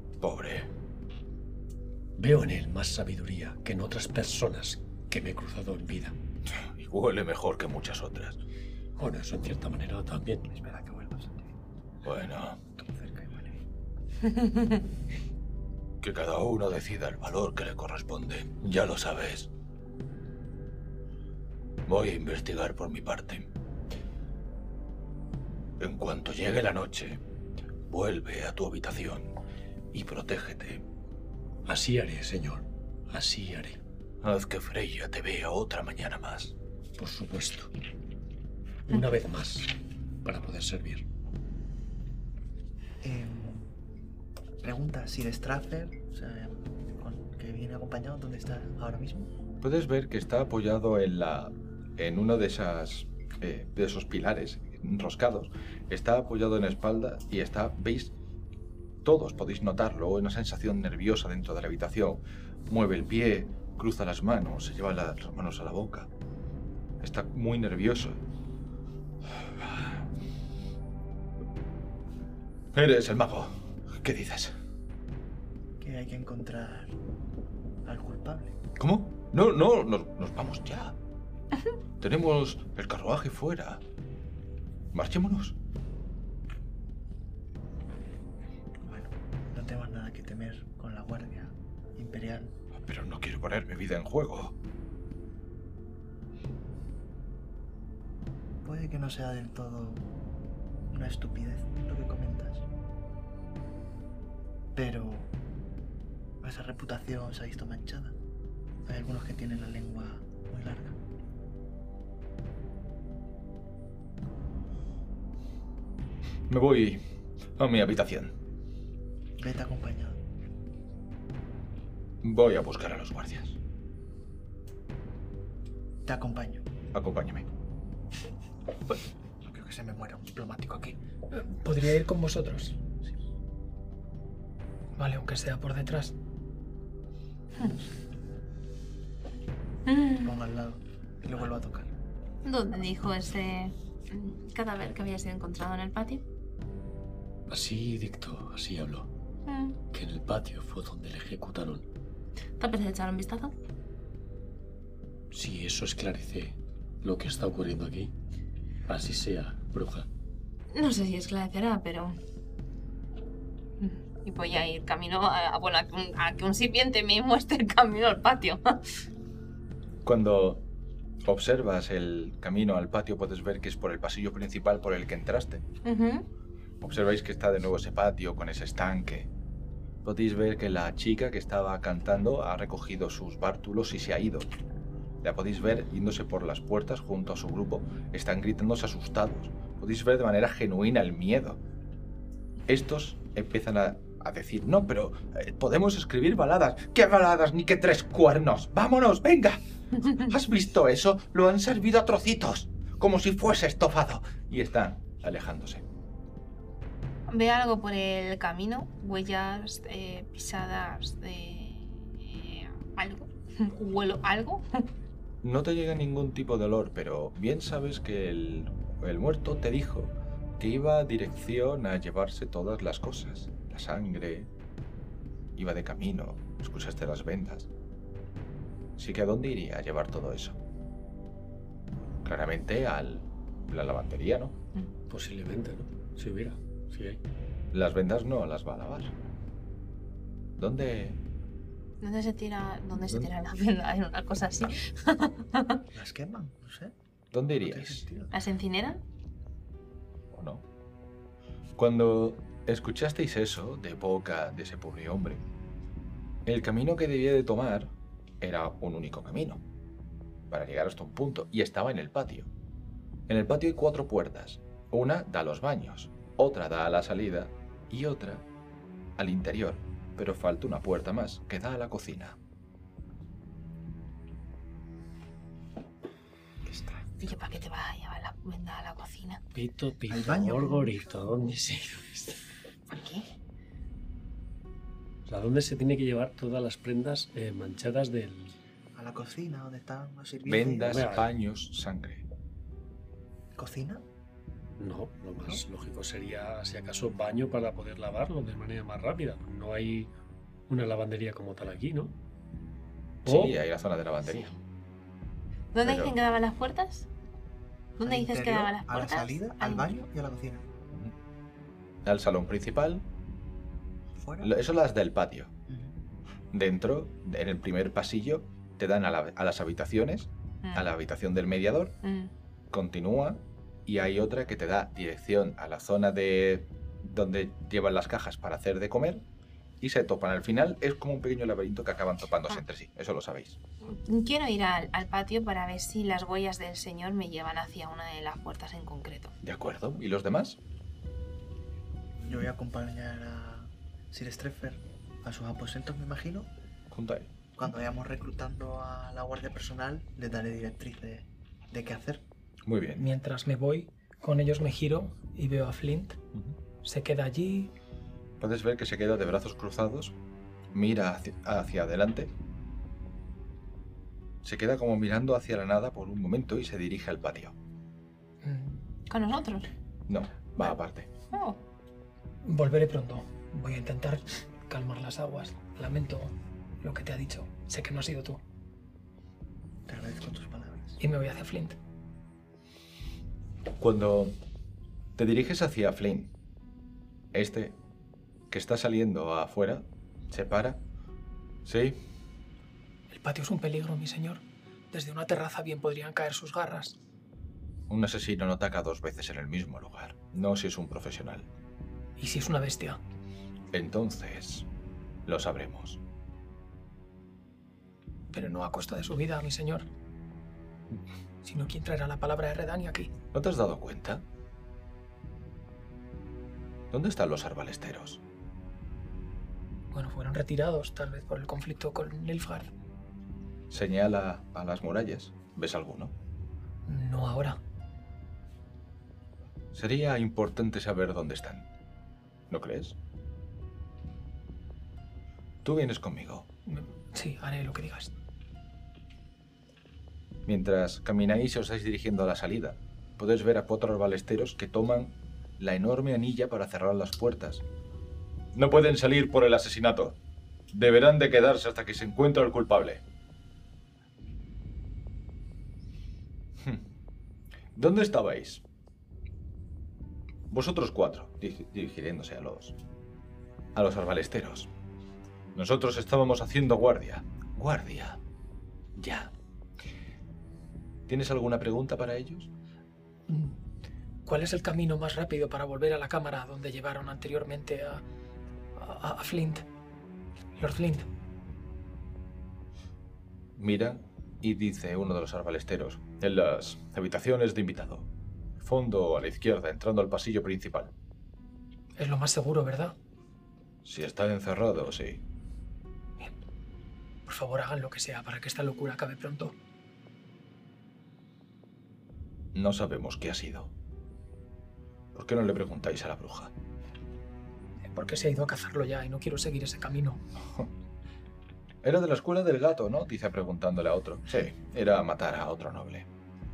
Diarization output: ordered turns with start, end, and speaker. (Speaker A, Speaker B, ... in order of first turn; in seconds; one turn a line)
Speaker A: 0.2-0.7
Speaker B: 2.2-6.2
Speaker A: 6.5-8.4
Speaker B: 9.0-10.5
Speaker C: 10.5-11.5
Speaker A: 12.0-12.6
Speaker C: 12.8-13.6
Speaker D: 14.4-14.7
Speaker A: 16.0-19.5
Speaker A: 21.9-23.5
Speaker A: 25.8-27.2
Speaker A: 27.9-29.3
Speaker A: 29.9-30.8
Speaker B: 31.7-33.8
Speaker A: 34.2-36.6
Speaker B: 37.0-37.7
Speaker B: 38.9-41.0
Speaker C: 43.0-43.7
Speaker C: 44.6-49.3
Speaker A: 49.6-58.1
Speaker A: 59.0-66.1
Speaker A: 67.0-68.2
Speaker A: 69.6-70.0
Speaker A: 72.7-74.6
Speaker C: 75.8-77.0
Speaker C: 77.8-78.5
Speaker A: 78.8-81.0
Speaker A: 82.0-83.8
Speaker A: 84.9-85.6
Speaker C: 88.8-92.5
Speaker A: 92.7-94.5
Speaker C: 98.6-100.1
Speaker C: 100.9-102.7
Speaker C: 104.8-105.3
Speaker C: 106.4-108.2
Speaker C: 108.8-111.0
Speaker A: 116.5-118.4
Speaker C: 119.4-120.2
Speaker A: 122.2-123.6
Speaker C: 126.0-126.6
Speaker A: 126.9-127.5
Speaker C: 129.4-131.0
Speaker E: 131.3-132.8
Speaker E: 135.0-136.1
Speaker D: 139.9-140.3
Speaker C: 140.2-141.9
Speaker D: 142.4-146.2
Speaker B: 147.5-149.1
Speaker D: 149.5-149.8
Speaker B: 149.9-151.9
Speaker D: 152.6-153.6
Speaker B: 155.3-158.1
Speaker B: 158.9-160.1
Speaker D: 160.7-162.2
Speaker D: 163.8-168.8
Speaker A: 170.0-170.7
Speaker A: 171.2-175.6
Speaker D: 175.8-176.3
Speaker A: 176.8-179.3
Speaker A: 180.0-184.5
Speaker A: 185.2-191.6
Speaker A: 192.7-205.8
Speaker D: 207.3-214.9
Speaker A: 215.4-224.5
Speaker A: 225.6-227.7
Speaker A: 229.0-230.6
Speaker A: 232.2-234.6
Speaker B: 235.1-237.2
Speaker A: 237.7-239.1
Speaker A: 240.6-241.2
Speaker D: 242.0-245.8
Speaker A: 242.9-243.3
Speaker C: 245.9-246.9
Speaker A: 247.3-248.1
Speaker C: 247.5-248.3
Speaker D: 248.3-249.0
Speaker A: 250.3-250.6
Speaker A: 251.8-255.4
Speaker A: 256.4-259.6
Speaker A: 260.5-262.5
Speaker A: 263.3-268.4
Speaker A: 269.2-272.4
Speaker C: 276.7-277.2
Speaker D: 277.2-279.4
Speaker B: 279.5-282.4
Speaker C: 280.1-281.6
Speaker D: 282.9-283.3
Speaker F: 285.3-288.5
Speaker C: 288.9-291.1
Speaker A: 290.4-292.2
Speaker C: 293.6-294.0
Speaker B: 294.8-295.9
Speaker F: 295.8-300.1
Speaker F: 300.7-302.1
Speaker A: 303.2-304.6
Speaker F: 303.3-303.5
Speaker D: 305.7-307.1
Speaker A: 305.8-306.1
Speaker C: 308.0-310.6
Speaker D: 308.0-309.9
Speaker A: 312.1-313.1
Speaker C: 314.2-314.5
Speaker A: 314.4-315.5
Speaker C: 315.7-315.9
Speaker A: 316.5-321.9
Speaker D: 320.6-320.9
Speaker D: 322.0-322.3
Speaker A: 322.7-329.2
Speaker A: 329.8-333.6
Speaker D: 333.8-339.3
Speaker A: 339.4-340.6
Speaker C: 342.2-346.5
Speaker A: 346.9-347.3
Speaker C: 347.6-352.2
Speaker A: 352.6-353.1
Speaker E: 353.0-356.2
Speaker E: 356.8-357.7
Speaker A: 358.4-360.2
Speaker A: 360.7-362.3
Speaker A: 364.4-367.6
Speaker E: 368.4-368.8
Speaker D: 369.1-369.7
Speaker A: 370.1-371.1
Speaker D: 371.3-371.6
Speaker E: 372.4-378.4
Speaker C: 379.9-381.0
Speaker E: 381.0-381.8
Speaker A: 383.8-384.4
Speaker A: 385.2-386.3
Speaker A: 387.3-387.8
Speaker A: 388.5-390.8
Speaker A: 391.6-392.0
Speaker E: 393.1-397.0
Speaker A: 397.9-401.5
Speaker E: 402.2-403.0
Speaker A: 403.7-404.7
Speaker A: 405.3-406.0
Speaker E: 408.3-409.9
Speaker E: 411.4-413.1
Speaker A: 413.3-414.2
Speaker A: 416.9-418.2
Speaker E: 419.9-422.7
Speaker A: 423.7-426.1
Speaker E: 426.9-427.6
Speaker A: 429.7-431.7
Speaker A: 432.5-433.0
Speaker A: 435.6-436.5
Speaker E: 436.7-438.1
Speaker A: 440.5-447.6
Speaker A: 448.5-450.2
Speaker A: 450.7-453.0
Speaker A: 456.6-456.9
Speaker A: 457.8-458.6
Speaker A: 460.5-462.8
Speaker A: 463.7-464.7
Speaker A: 465.5-468.2
Speaker A: 469.0-469.3
Speaker A: 471.1-472.5
Speaker E: 473.3-473.6
Speaker E: 474.3-478.0
Speaker E: 478.8-479.7
Speaker E: 480.6-481.1
Speaker A: 483.6-488.1
Speaker A: 488.6-490.9
Speaker E: 492.0-493.0
Speaker A: 493.8-495.2
Speaker E: 497.3-499.6
Speaker A: 502.5-503.7
Speaker A: 505.1-506.5
Speaker E: 507.8-510.2
Speaker A: 511.8-516.1